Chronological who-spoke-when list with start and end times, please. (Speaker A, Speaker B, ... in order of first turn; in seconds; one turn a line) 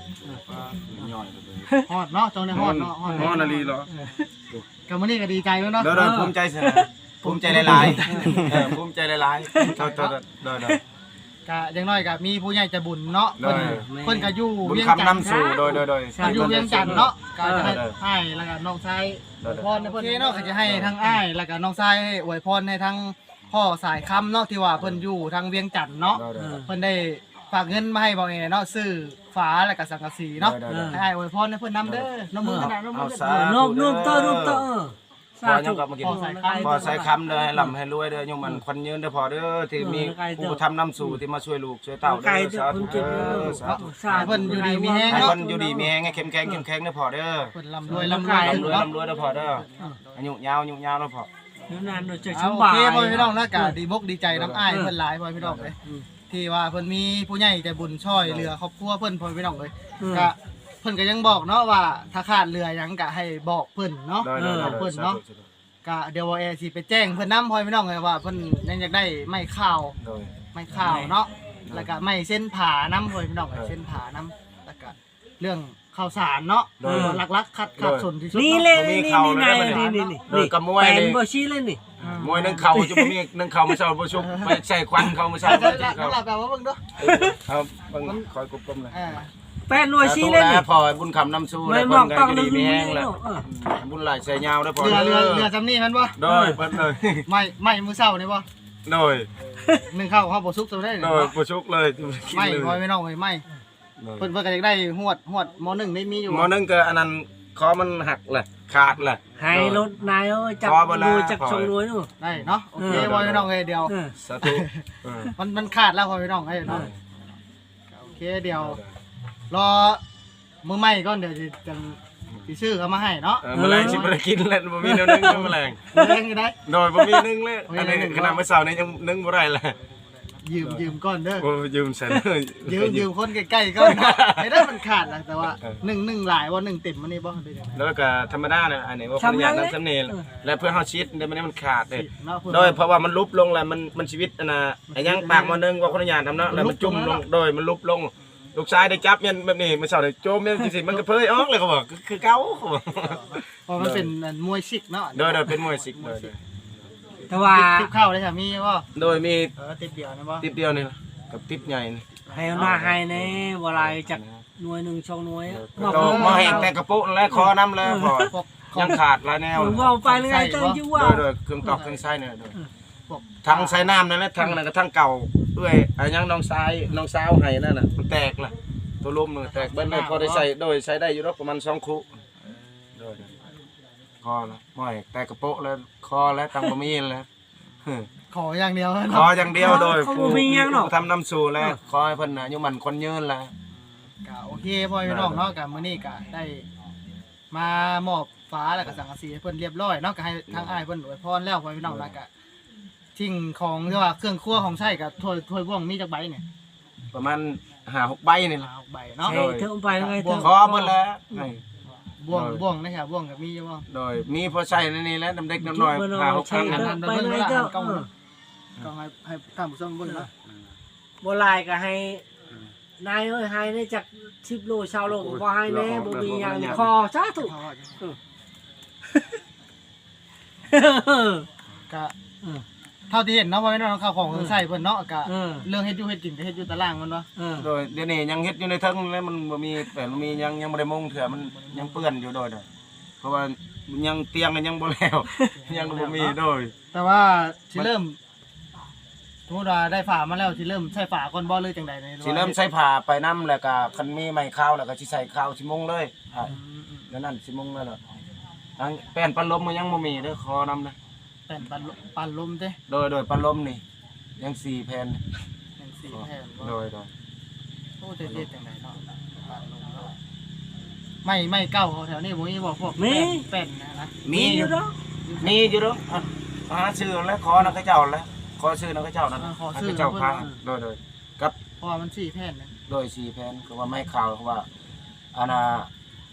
Speaker A: 0.4-1.0
Speaker B: 0.8-1.7
Speaker A: 1.9-3.7
Speaker B: 2.5-3.9
Speaker C: 3.1-4.3
Speaker A: 4.9-5.9
Speaker B: 5.8-10.8
Speaker C: 5.9-6.9
Speaker A: 7.2-8.7
Speaker C: 7.6-8.6
Speaker C: 9.5-9.8
Speaker A: 9.6-10.2
Speaker A: 11.5-15.3
Speaker B: 13.4-13.9
Speaker C: 13.4-14.3
Speaker B: 14.6-18.0
Speaker C: 15.2-17.8
Speaker A: 16.2-33.2
Speaker B: 19.4-19.7
Speaker C: 19.7-21.1
Speaker B: 20.6-21.0
Speaker B: 24.8-25.0
Speaker B: 26.1-26.6
Speaker C: 26.4-26.7
Speaker B: 30.4-31.0
Speaker C: 30.7-31.0
Speaker B: 31.8-34.7
Speaker C: 32.4-37.7
Speaker B: 35.4-51.3
Speaker A: 36.0-37.1
Speaker C: 39.8-41.2
Speaker C: 42.0-45.9
Speaker A: 42.8-45.4
Speaker A: 47.5-50.2
Speaker C: 47.9-48.9
Speaker C: 51.7-53.8
Speaker A: 52.3-55.8
Speaker B: 54.3-54.7
Speaker C: 54.7-54.9
Speaker B: 55.4-55.7
Speaker A: 56.3-65.2
Speaker B: 58.2-58.5
Speaker C: 60.0-60.3
Speaker B: 64.2-65.5
Speaker C: 64.4-64.8
Speaker A: 65.8-70.0
Speaker B: 70.0-70.3
Speaker A: 70.5-78.7
Speaker C: 70.7-71.1
Speaker B: 76.8-77.2
Speaker C: 76.8-77.2
Speaker B: 77.8-78.1
Speaker C: 78.3-81.8
Speaker B: 78.7-81.2
Speaker A: 79.7-80.2
Speaker A: 82.0-82.7
Speaker B: 82.0-86.2
Speaker C: 82.7-83.2
Speaker A: 85.4-86.8
Speaker B: 87.0-89.0
Speaker C: 87.0-87.4
Speaker A: 88.9-89.3
Speaker C: 89.7-90.7
Speaker B: 90.0-95.5
Speaker C: 91.7-93.4
Speaker A: 94.8-96.2
Speaker B: 96.2-97.3
Speaker C: 96.3-96.6
Speaker A: 97.2-98.5
Speaker B: 98.9-99.3
Speaker A: 99.9-101.4
Speaker B: 101.0-102.8
Speaker A: 102.3-103.5
Speaker B: 104.0-104.3
Speaker A: 104.2-106.5
Speaker B: 106.3-109.9
Speaker C: 109.4-112.1
Speaker B: 110.6-111.7
Speaker A: 112.2-114.8
Speaker B: 112.3-113.5
Speaker C: 112.8-113.1
Speaker C: 113.9-114.1
Speaker B: 114.2-115.3
Speaker A: 115.4-116.9
Speaker B: 116.7-117.0
Speaker A: 117.9-118.8
Speaker B: 118.6-118.9
Speaker A: 119.5-120.0
Speaker A: 120.6-124.1
Speaker B: 123.4-125.9
Speaker C: 123.5-124.0
Speaker C: 124.8-126.1
Speaker A: 125.9-126.6
Speaker B: 126.7-129.8
Speaker A: 127.7-128.4
Speaker A: 130.0-131.5
Speaker B: 130.6-133.1
Speaker A: 132.7-137.8
Speaker B: 133.8-134.7
Speaker B: 137.8-154.1
Speaker C: 139.2-140.2
Speaker A: 141.9-142.8
Speaker A: 144.9-145.6
Speaker A: 146.5-147.2
Speaker A: 153.0-156.3
Speaker B: 155.1-156.6
Speaker C: 157.3-157.9
Speaker A: 157.3-158.9
Speaker B: 158.9-159.5
Speaker A: 159.6-160.5
Speaker B: 160.4-164.4
Speaker A: 162.3-162.7
Speaker C: 162.3-166.7
Speaker B: 165.5-169.9
Speaker A: 165.8-166.7
Speaker C: 167.4-168.3
Speaker A: 168.3-169.0
Speaker C: 169.6-171.2
Speaker A: 170.0-170.8
Speaker B: 170.9-172.6
Speaker A: 171.6-172.0
Speaker A: 173.1-173.9
Speaker B: 173.4-182.1
Speaker A: 179.5-180.5
Speaker B: 183.0-183.3
Speaker B: 184.2-187.3
Speaker A: 188.3-189.9
Speaker B: 189.1-193.5
Speaker C: 189.6-190.9
Speaker A: 193.9-196.7
Speaker B: 195.0-195.5
Speaker A: 197.5-202.3
Speaker B: 200.5-200.8
Speaker B: 201.8-202.2
Speaker A: 203.2-206.4
Speaker B: 207.1-208.7
Speaker A: 208.6-210.5
Speaker C: 209.2-210.9
Speaker B: 209.3-209.7
Speaker B: 210.4-211.6
Speaker A: 212.1-213.9
Speaker B: 212.3-212.6
Speaker B: 213.9-217.0
Speaker C: 215.6-218.1
Speaker A: 216.6-218.1
Speaker A: 218.8-220.3
Speaker C: 221.2-222.2
Speaker C: 223.0-228.2
Speaker B: 225.1-226.9
Speaker A: 227.4-228.1
Speaker C: 230.7-231.5
Speaker A: 231.9-232.2
Speaker A: 233.1-237.3
Speaker C: 235.2-235.7
Speaker C: 237.4-237.7
Speaker B: 237.6-242.7
Speaker A: 241.6-241.9
Speaker B: 243.2-246.7
Speaker A: 245.6-246.4
Speaker A: 246.9-248.2
Speaker A: 249.5-252.6
Speaker B: 252.2-256.6
Speaker A: 256.5-257.1
Speaker B: 257.1-258.0
Speaker B: 258.8-261.0
Speaker A: 261.5-262.8
Speaker B: 262.9-263.8
Speaker B: 264.4-265.2
Speaker A: 265.8-266.7
Speaker B: 266.1-267.1
Speaker A: 268.0-270.1
Speaker A: 271.2-274.2
Speaker C: 273.0-273.4
Speaker B: 274.2-274.8
Speaker C: 274.3-274.9
Speaker A: 275.2-275.7
Speaker B: 275.4-281.6
Speaker A: 279.4-280.5
Speaker A: 281.8-282.8
Speaker B: 282.9-284.7
Speaker B: 285.3-285.9